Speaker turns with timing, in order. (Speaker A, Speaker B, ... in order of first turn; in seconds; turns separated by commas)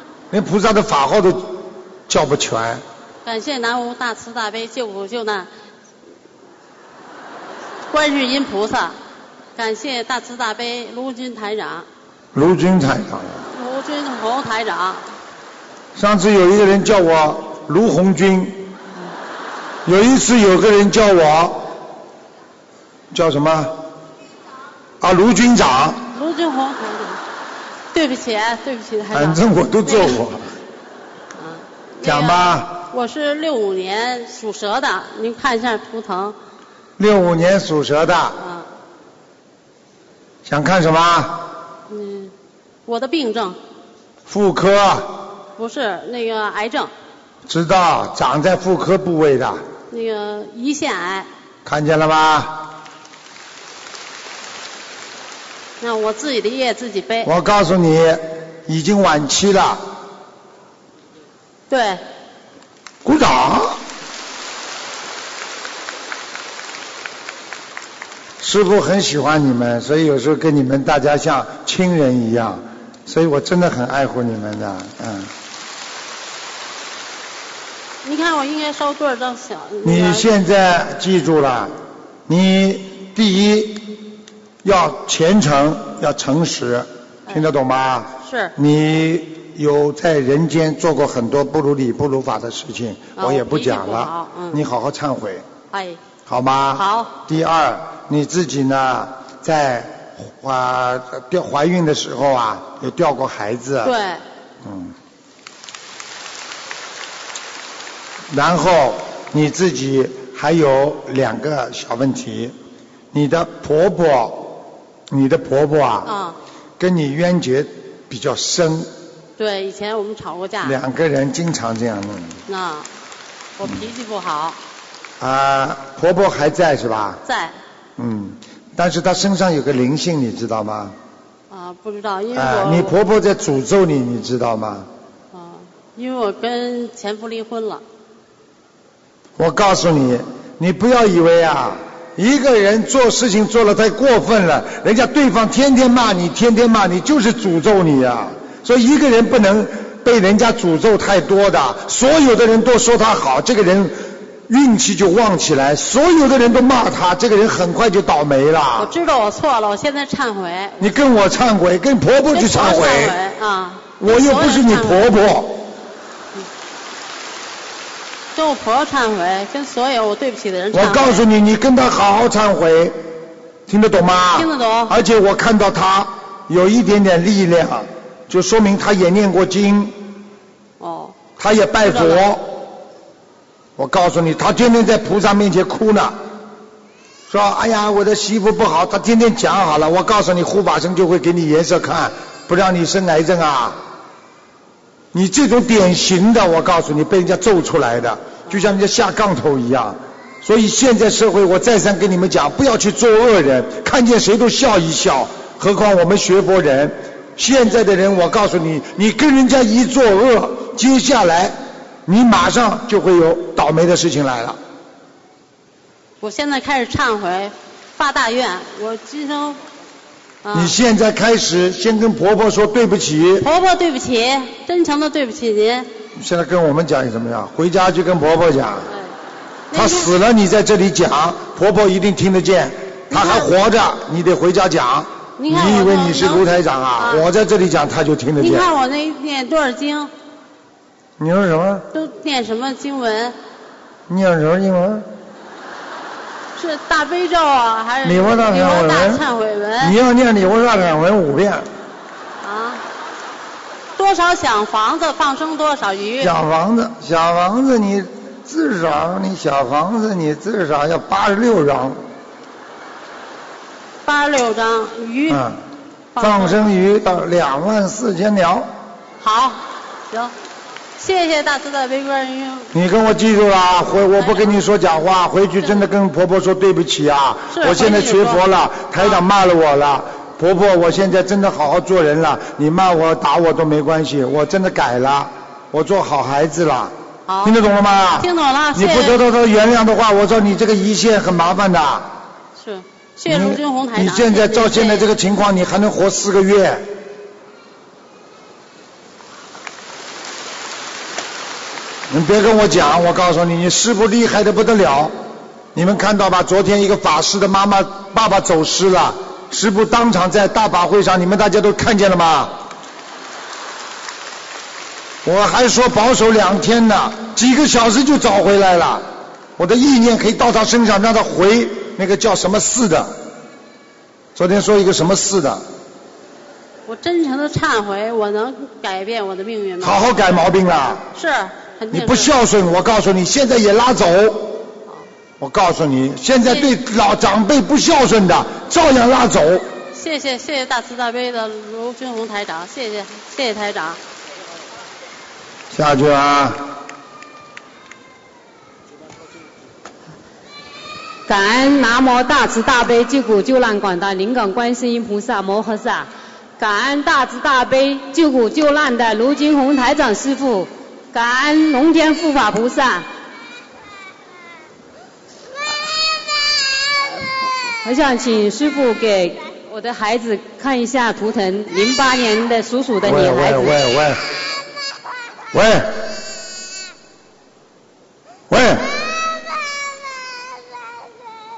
Speaker A: 0.3-2.8, Speaker B: 3.2-5.5, Speaker B: 7.9-9.0, Speaker B: 9.6-11.9, Speaker A: 12.3-13.5, Speaker B: 13.5-15.0, Speaker A: 16.0-18.7, Speaker A: 19.9-21.7, Speaker A: 23.1-23.8, Speaker A: 25.0-26.1, Speaker B: 26.1-27.2, Speaker B: 27.9-30.2, Speaker A: 29.1-30.5, Speaker B: 31.4-36.4, Speaker A: 32.0-32.8, Speaker A: 37.0-38.4, Speaker B: 38.4-38.7, Speaker A: 40.5-41.5, Speaker B: 41.9-42.3, Speaker B: 42.9-43.6, Speaker A: 44.3-45.3, Speaker B: 45.6-46.9, Speaker A: 47.5-49.6, Speaker B: 49.9-51.3, Speaker A: 51.6-52.7, Speaker B: 55.8-57.3, Speaker A: 57.2-59.8, Speaker B: 61.7-62.0, Speaker A: 63.0-63.8, Speaker A: 68.4-75.3, Speaker B: 78.0-80.3, Speaker A: 79.8-81.8, Speaker A: 82.3-84.0, Speaker A: 84.6-95.5, Speaker B: 88.2-88.5, Speaker B: 93.2-94.6, Speaker B: 95.7-96.0, Speaker A: 96.3-103.9, Speaker B: 96.8-97.1, Speaker B: 103.8-104.2, Speaker A: 104.6-105.0, Speaker A: 108.3-112.5, Speaker A: 113.1-116.1, Speaker B: 116.1-116.4, Speaker A: 116.8-118.9, Speaker B: 119.4-120.8, Speaker A: 120.6-122.4, Speaker B: 122.5-122.9, Speaker B: 123.6-124.6, Speaker A: 125.2-127.2, Speaker B: 127.3-127.6, Speaker A: 128.0-131.0, Speaker B: 131.5-132.9, Speaker A: 132.3-134.9, Speaker B: 135.3-137.8, Speaker A: 139.4-158.9, Speaker B: 158.8-161.0, Speaker A: 160.8-163.2, Speaker B: 162.3-165.1, Speaker A: 164.0-165.7, Speaker B: 168.3-171.2, Speaker A: 170.7-173.0, Speaker A: 173.7-180.2, Speaker B: 174.3-175.0, Speaker B: 180.8-181.2, Speaker A: 181.4-182.5, Speaker B: 181.8-182.3, Speaker A: 183.8-186.2, Speaker A: 187.3-193.8, Speaker A: 195.1-214.6, Speaker B: 216.2-219.6, Speaker B: 220.4-220.7, Speaker A: 220.5-223.5, Speaker B: 223.4-225.9, Speaker A: 226.2-228.9, Speaker B: 229.7-230.2, Speaker A: 229.7-238.7, Speaker B: 233.1-233.5, Speaker B: 235.4-237.3, Speaker B: 238.4-240.1, Speaker A: 241.2-241.9, Speaker B: 241.9-243.4, Speaker A: 244.1-245.1, Speaker B: 246.6-250.0, Speaker A: 248.0-249.2, Speaker A: 249.8-251.7, Speaker B: 252.4-252.8, Speaker B: 254.0-256.4, Speaker A: 256.2-262.0, Speaker B: 264.1-265.4, Speaker A: 265.3-265.6, Speaker B: 266.1-266.7, Speaker A: 266.2-268.7, Speaker B: 269.2-270.3, Speaker B: 271.0-272.7, Speaker A: 272.7-292.1, Speaker B: 274.2-274.6, Speaker B: 277.5-278.4, Speaker B: 287.3-287.6, Speaker B: 288.2-289.2, Speaker B: 292.6-295.1, Speaker A: 293.3-296.9, Speaker A: 302.1-305.1, Speaker A: 305.8-312.6, Speaker A: 315.2-319.1, Speaker A: 319.6-323.2, Speaker A: 324.4-325.6, Speaker B: 326.9-330.1, Speaker A: 329.8-331.1, Speaker B: 331.2-332.3, Speaker A: 331.9-334.7, Speaker A: 335.4-339.7, Speaker B: 336.4-336.7, Speaker B: 339.9-344.0, Speaker A: 345.7-346.6, Speaker C: 351.3-363.1, Speaker C: 367.8-373.8, Speaker A: 373.0-374.2, Speaker A: 375.5-376.1, Speaker A: 378.5-379.1